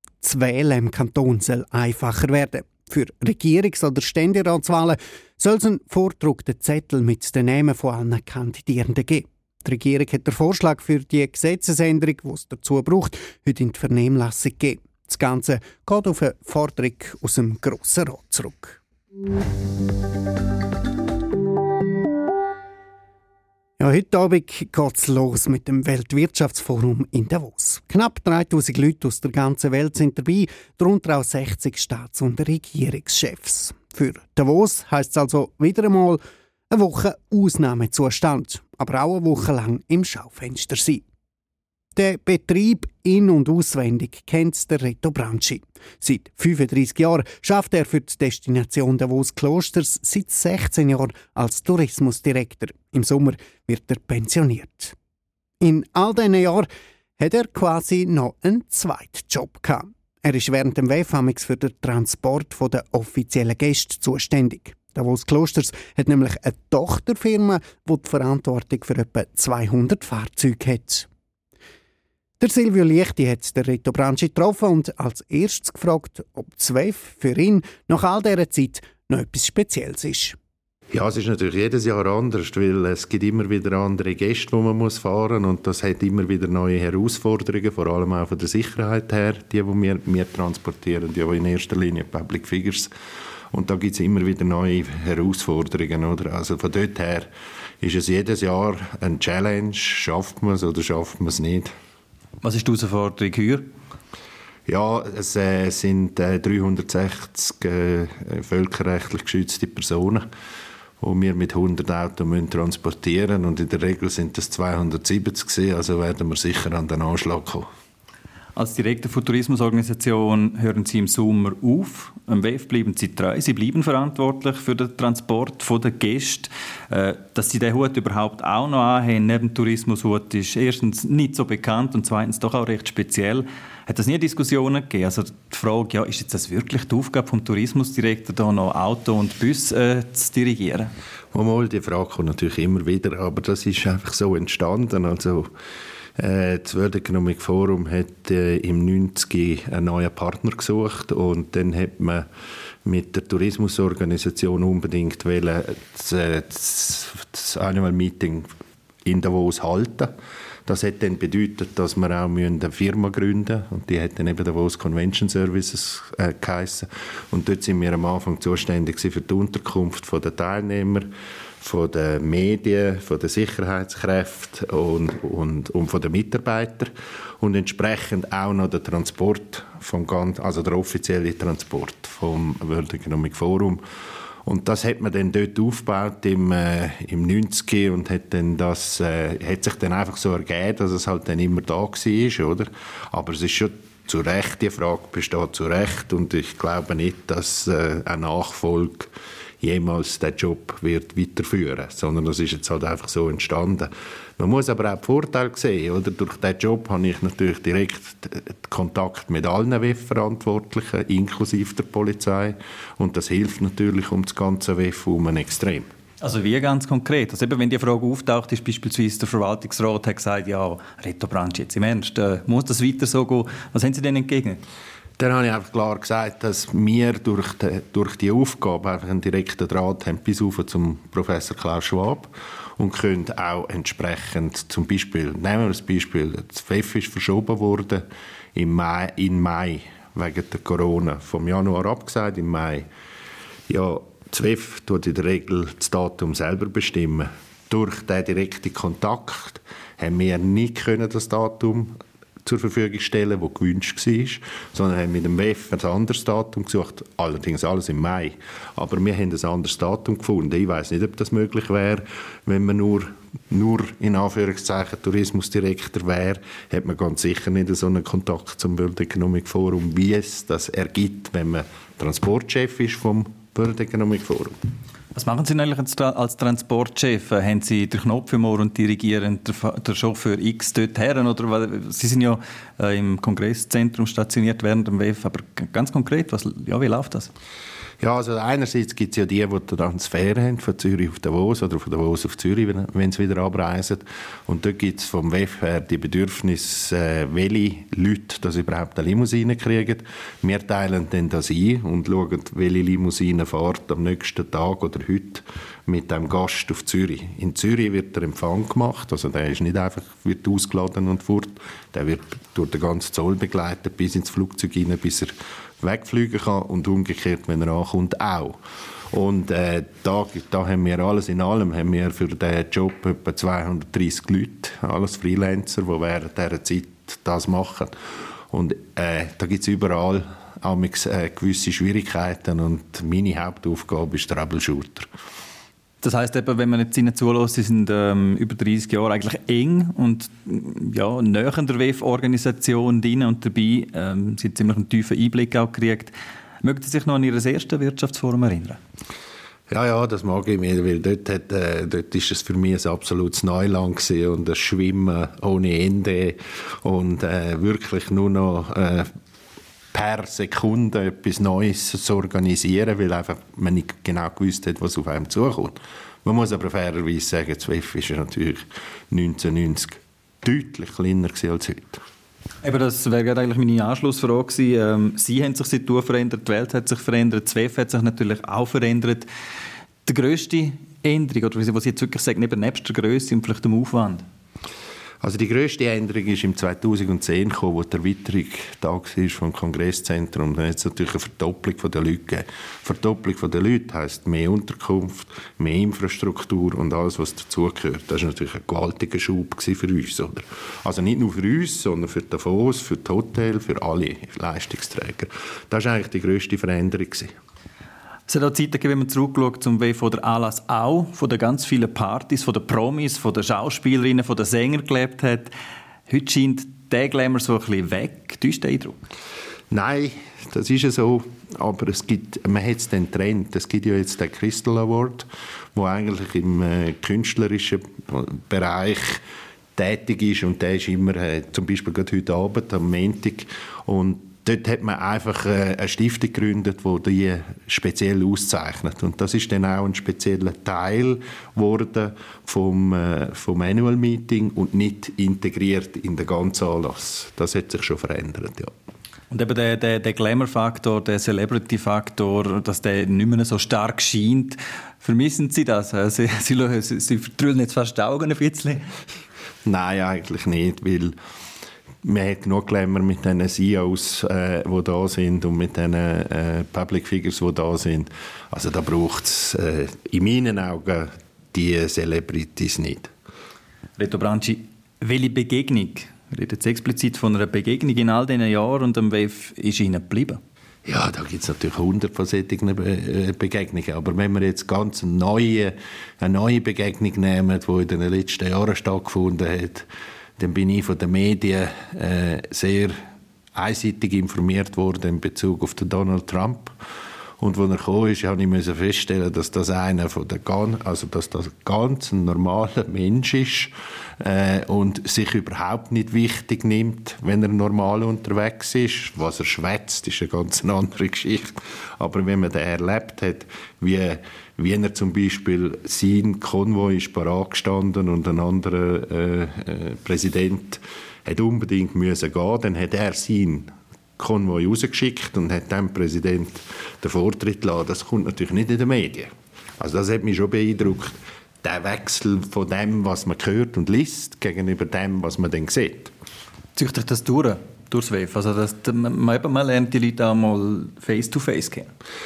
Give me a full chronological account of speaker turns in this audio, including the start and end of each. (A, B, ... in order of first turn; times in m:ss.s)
0:00.2-0:18.8 A
0:23.8-0:41.0 A
0:41.9-0:54.9 A
0:55.6-0:56.7 A
0:57.2-1:11.1 A
1:12.4-1:20.4 A
1:20.9-1:32.9 B
1:33.5-1:37.3 B
1:37.8-1:41.7 B
1:42.4-1:43.7 C
1:44.7-1:50.3 B
1:51.0-1:57.7 B
1:58.6-2:20.9 C
2:21.3-2:25.5 B
2:26.2-2:32.2 B
2:32.8-2:38.5 B
2:39.0-2:40.1 B
2:40.7-2:51.1 B
2:51.6-3:03.8 B
3:04.4-3:19.1 B
3:19.6-3:35.9 B
3:36.2-3:44.6 C
3:45.2-4:02.9 B
4:03.7-4:11.9 B
4:12.4-4:34.6 B
4:35.1-4:47.3 C
4:48.0-5:18.6 B
5:19.1-5:27.9 B
5:28.5-5:35.1 B
5:36.0-5:48.8 C
5:49.7-5:59.1 B
5:59.9-6:12.0 B
6:12.6-6:19.3 C
6:20.1-6:24.2 C
6:25.2-6:47.3 B
6:48.3-6:55.5 C
6:56.1-6:59.0 C
6:59.7-7:09.2 B
7:09.8-7:28.7 B
7:29.3-7:38.9 C
7:39.7-7:41.2 B
7:42.0-7:53.1 B
7:54.0-8:00.4 C
8:00.8-8:09.9 B
8:10.4-8:13.0 B
8:13.6-8:16.8 B
8:17.4-8:56.1 B
8:56.8-9:01.9 C